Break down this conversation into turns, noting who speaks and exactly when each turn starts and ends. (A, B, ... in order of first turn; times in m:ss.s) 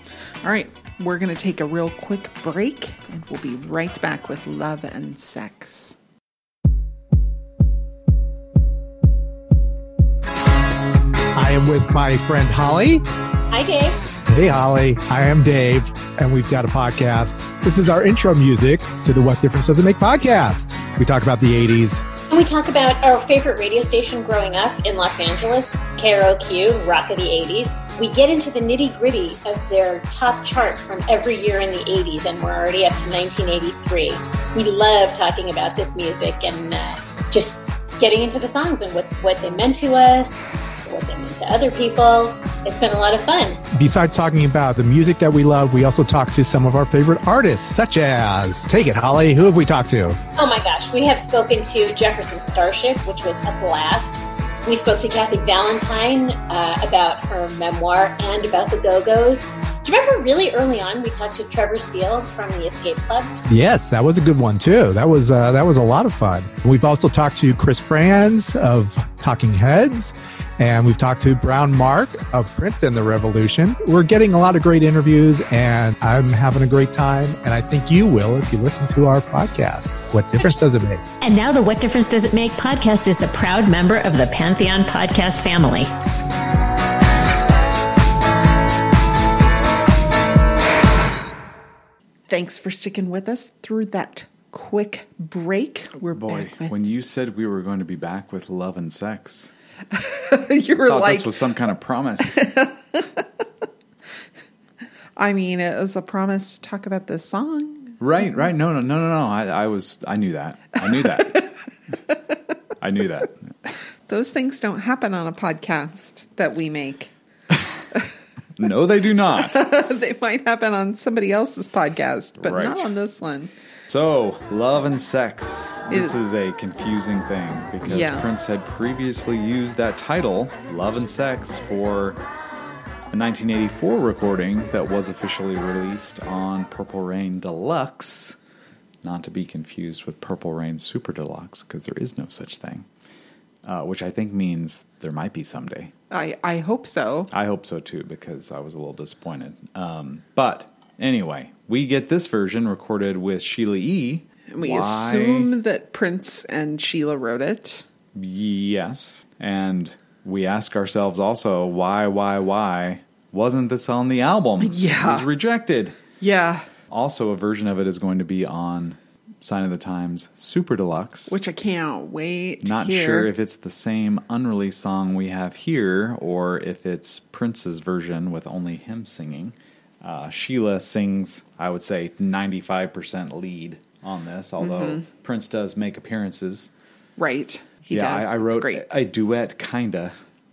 0:00.4-0:06.0 A
0:11.4-0:13.0 B
0:13.5-0:14.0 C
0:14.2-0:22.1 B
0:22.3-0:43.6 C
0:43.7-0:50.2 B
0:50.3-1:03.3 C
1:03.5-1:21.0 B
1:21.2-1:25.9 D
1:32.3-1:36.7 A
1:36.1-1:39.5 E
1:39.9-1:41.3 A
1:40.8-1:42.5 E
1:42.4-1:43.2 A
1:45.2-1:48.0 A
1:48.0-1:51.5 E
1:52.8-1:53.7 E
1:54.1-1:57.1 A
1:58.6-1:59.7 E
1:59.4-2:03.5 A
2:02.4-2:02.9 E
2:03.9-2:12.2 E
2:05.9-2:06.2 A
2:07.8-2:08.2 A
2:13.1-2:18.4 E
2:19.0-2:22.9 E
2:23.6-2:25.9 E
2:26.1-2:27.3 A
2:27.3-2:35.5 E
2:34.5-2:37.8 A
2:38.1-2:46.0 E
2:44.6-2:45.3 A
2:46.2-2:46.7 A
2:46.9-2:51.4 E
2:51.3-2:53.3 A
2:52.6-3:06.7 E
3:04.6-3:05.0 A
3:07.2-3:08.8 A
3:07.9-3:10.1 E